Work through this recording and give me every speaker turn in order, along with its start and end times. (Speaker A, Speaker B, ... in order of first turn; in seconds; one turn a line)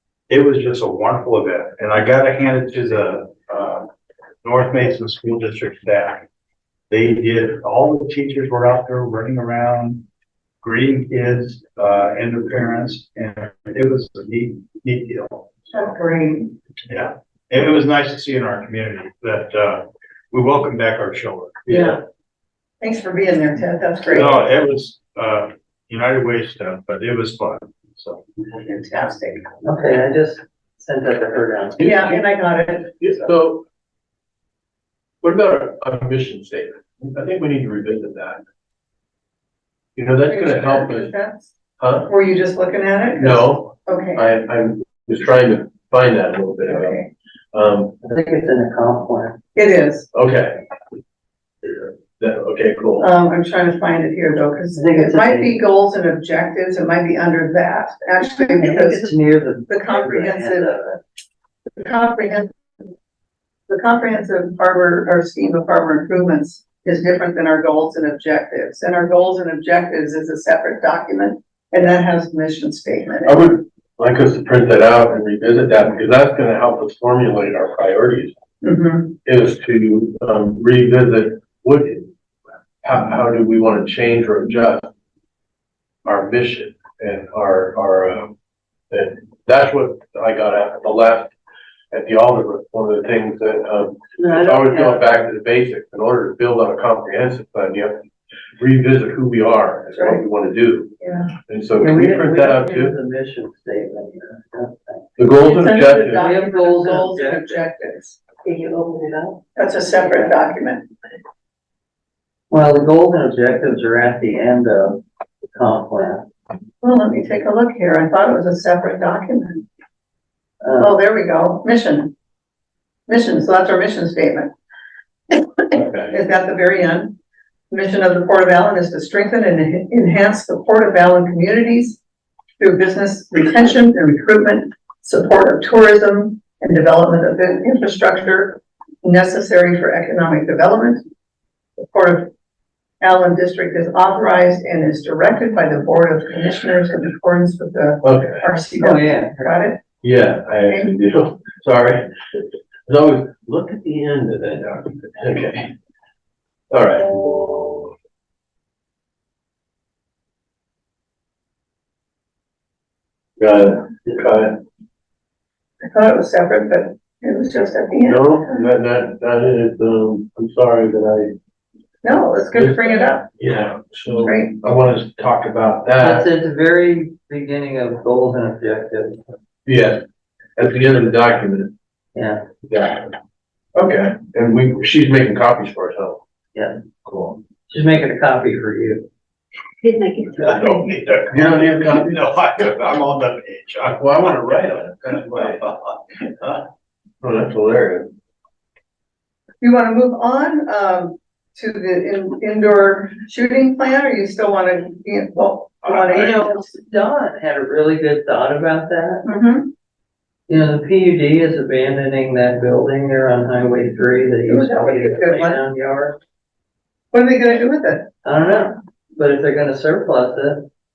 Speaker A: 0.3-3.9
Speaker A: 4.4-6.2
Speaker A: 6.9-10.0
Speaker A: 10.6-15.5
Speaker B: 15.7-16.5
Speaker A: 16.9-21.9
Speaker B: 21.7-22.0
Speaker B: 22.8-24.4
Speaker A: 24.1-28.2
Speaker B: 28.5-29.5
Speaker C: 29.6-32.2
Speaker D: 31.8-32.1
Speaker B: 31.8-33.3
Speaker D: 33.0-33.6
Speaker D: 35.2-38.4
Speaker D: 40.0-41.1
Speaker B: 40.3-41.5
Speaker D: 41.8-42.1
Speaker B: 42.0-44.2
Speaker D: 43.2-48.0
Speaker B: 46.7-47.1
Speaker C: 48.0-49.4
Speaker B: 49.5-50.1
Speaker D: 50.1-50.6
Speaker D: 51.6-53.1
Speaker B: 53.0-59.1
Speaker C: 54.7-55.5
Speaker C: 58.2-61.0
Speaker B: 59.7-60.8
Speaker B: 61.8-62.5
Speaker B: 63.7-73.4
Speaker D: 73.2-78.3
Speaker B: 78.6-79.1
Speaker D: 79.2-82.1
Speaker D: 82.8-84.9
Speaker D: 86.0-88.3
Speaker D: 88.9-91.3
Speaker D: 91.9-98.0
Speaker C: 94.2-95.1
Speaker D: 98.6-100.9
Speaker B: 101.0-101.3
Speaker D: 101.5-103.0
Speaker C: 101.8-105.0
Speaker D: 105.2-106.2
Speaker B: 105.4-108.2
Speaker C: 106.0-107.4
Speaker C: 108.4-109.4
Speaker B: 109.5-110.9
Speaker C: 112.5-116.2
Speaker B: 116.8-119.6
Speaker C: 120.6-120.9
Speaker B: 120.8-122.1
Speaker B: 123.1-124.5
Speaker D: 125.7-126.2
Speaker B: 126.1-127.2
Speaker B: 127.7-132.0
Speaker B: 132.6-141.0
Speaker B: 141.8-142.3
Speaker B: 143.0-149.8
Speaker D: 148.0-148.5
Speaker C: 148.7-149.5
Speaker D: 150.0-152.1
Speaker D: 152.9-155.7
Speaker D: 156.7-157.9
Speaker D: 163.4-164.6
Speaker B: 165.8-168.6
Speaker D: 168.0-171.3
Speaker B: 172.0-173.3
Speaker D: 172.5-176.3
Speaker B: 174.2-174.6
Speaker C: 176.0-179.2
Speaker D: 179.7-180.0
Speaker D: 180.6-181.7
Speaker C: 182.1-182.4
Speaker D: 182.7-183.1
Speaker D: 183.7-186.2
Speaker D: 187.0-187.4
Speaker C: 187.7-189.1
Speaker A: 190.2-196.6
Speaker D: 191.3-192.1
Speaker D: 193.8-195.6
Speaker D: 197.2-198.1
Speaker B: 199.6-206.7
Speaker C: 205.9-209.2
Speaker B: 209.2-209.7
Speaker C: 210.5-216.2
Speaker B: 214.4-215.6
Speaker B: 217.1-218.1
Speaker C: 218.2-220.7